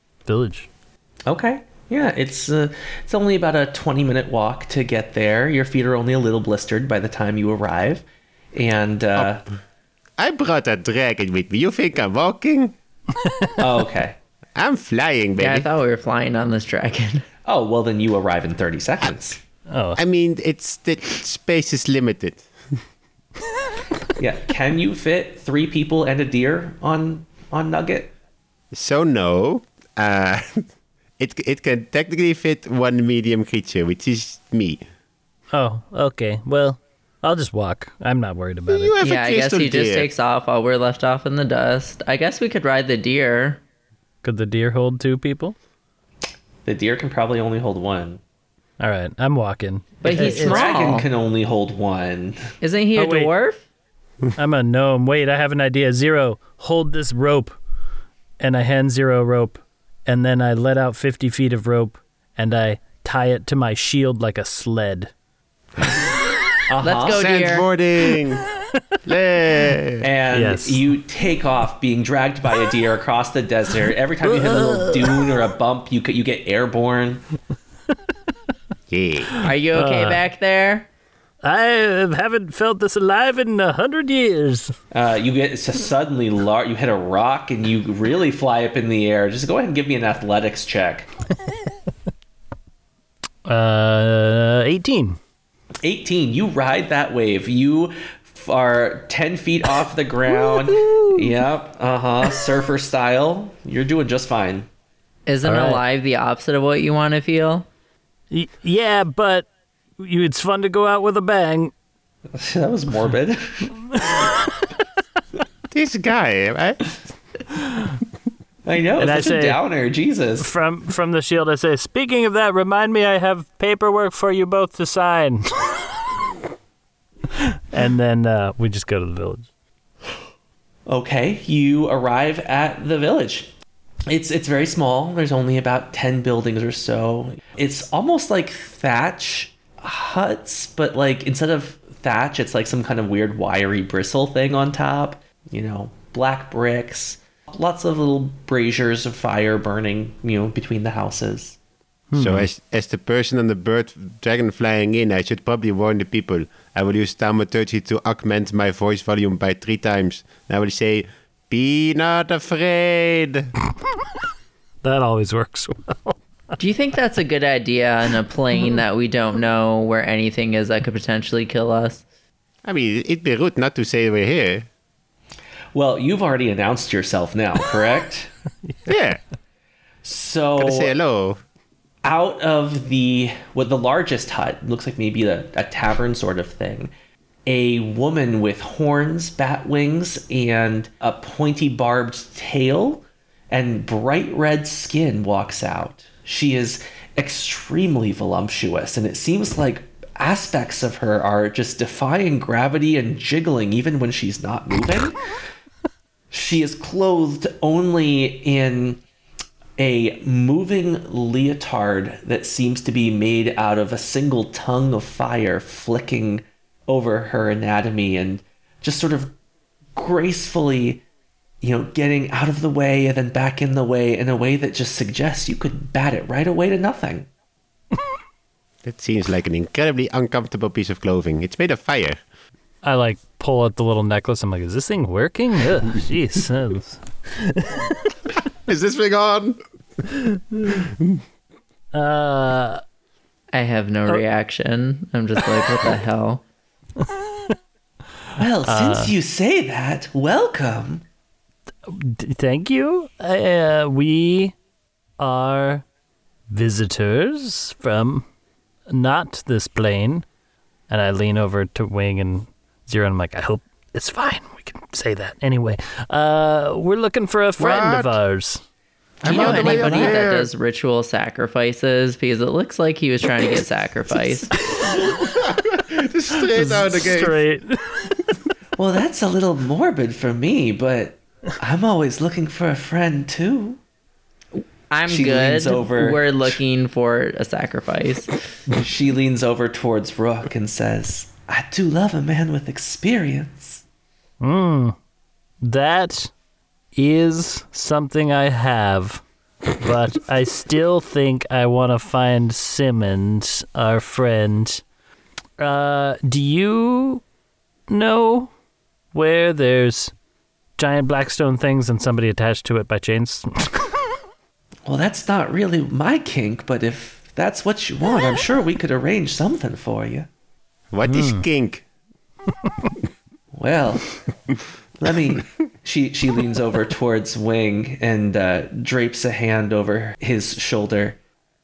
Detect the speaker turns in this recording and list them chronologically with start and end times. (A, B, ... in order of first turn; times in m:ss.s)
0:00.2-0:00.7 A
0:01.2-0:09.4 B
0:10.2-0:12.7 C
0:13.6-0:14.1 B
0:14.6-0:15.7 C
0:15.4-0:17.2 D
0:17.5-0:19.4 B
0:19.7-0:20.0 A
0:20.0-0:22.5 C
0:24.2-0:28.1 B
0:28.7-0:30.6 C
0:31.2-0:34.8 C
0:35.5-0:39.0 A
0:38.7-0:40.1 C
0:39.0-0:43.6 D
0:44.2-0:45.6 A
0:46.6-0:48.2 B
0:48.8-0:50.8 A
0:50.0-0:51.0 D
0:50.0-0:52.4 B
0:52.6-0:53.6 D
0:53.0-0:53.3 A
0:54.4-0:57.6 A
0:58.4-1:05.1 A
1:06.7-1:07.2 B
1:06.8-1:07.7 D
1:07.1-1:08.4 C
1:09.0-1:10.0 C
1:10.0-1:17.2 B
1:10.3-1:10.8 A
1:14.2-1:15.2 A
1:18.9-1:19.3 C
1:19.3-1:20.2 A
1:19.4-1:20.9 D
1:21.4-1:24.7 A
1:24.9-1:31.1 B
1:33.4-1:35.2 A
1:35.8-1:44.7 B
1:45.3-1:47.7 D
1:45.4-1:45.8 A
1:48.3-1:49.5 A
1:50.0-1:51.7 A
1:52.4-1:53.7 B
1:54.0-1:54.3 A
1:55.7-1:56.9 C
1:58.6-2:00.5 B
1:59.0-1:59.6 A
2:00.4-2:05.9 A
2:07.7-2:09.5 A
2:10.9-2:13.5 B
2:14.1-2:31.6 B
2:32.1-2:32.5 A
2:32.2-2:43.5 C
2:44.8-2:46.2 A
2:46.6-2:52.0 D
2:52.6-2:54.7 C
2:55.7-2:58.3 B
2:58.9-2:59.2 C
3:00.0-3:01.0 B
3:00.6-3:01.4 C
3:02.0-3:06.9 B
3:07.5-3:25.3 B
3:26.3-3:29.0 B
3:29.8-3:39.3 B
3:40.0-3:41.0 B
3:41.6-3:47.3 B
3:48.8-3:52.2 C
3:52.8-3:58.1 A
3:58.6-3:59.6 C
4:01.9-4:02.8 A
4:03.5-4:06.4 D
4:08.4-4:11.0 B
4:08.7-4:09.1 A
4:11.9-4:14.6 A
4:15.2-4:15.8 A
4:16.5-4:18.2 A
4:18.9-4:20.2 A
4:20.9-4:28.6 A
4:27.6-4:28.2 C
4:29.2-4:30.5 C
4:29.2-4:34.6 D
4:29.3-4:30.0 A
4:34.8-4:35.1 A
4:35.2-4:37.4 C
4:36.5-4:38.3 A
4:38.8-4:43.8 B
4:44.5-4:48.4 D
4:45.0-4:46.6 B
4:48.8-4:53.8 B
4:54.4-4:55.0 A
4:55.6-4:56.3 A
4:56.9-4:59.2 A
4:59.8-5:04.8 A
5:05.6-5:07.2 A
5:07.9-5:08.5 A
5:09.1-5:10.1 A
5:10.8-5:13.9 A
5:14.9-5:20.3 B
5:20.9-5:21.8 C
5:21.0-5:21.4 A
5:23.5-5:24.1 B
5:25.0-5:31.2 B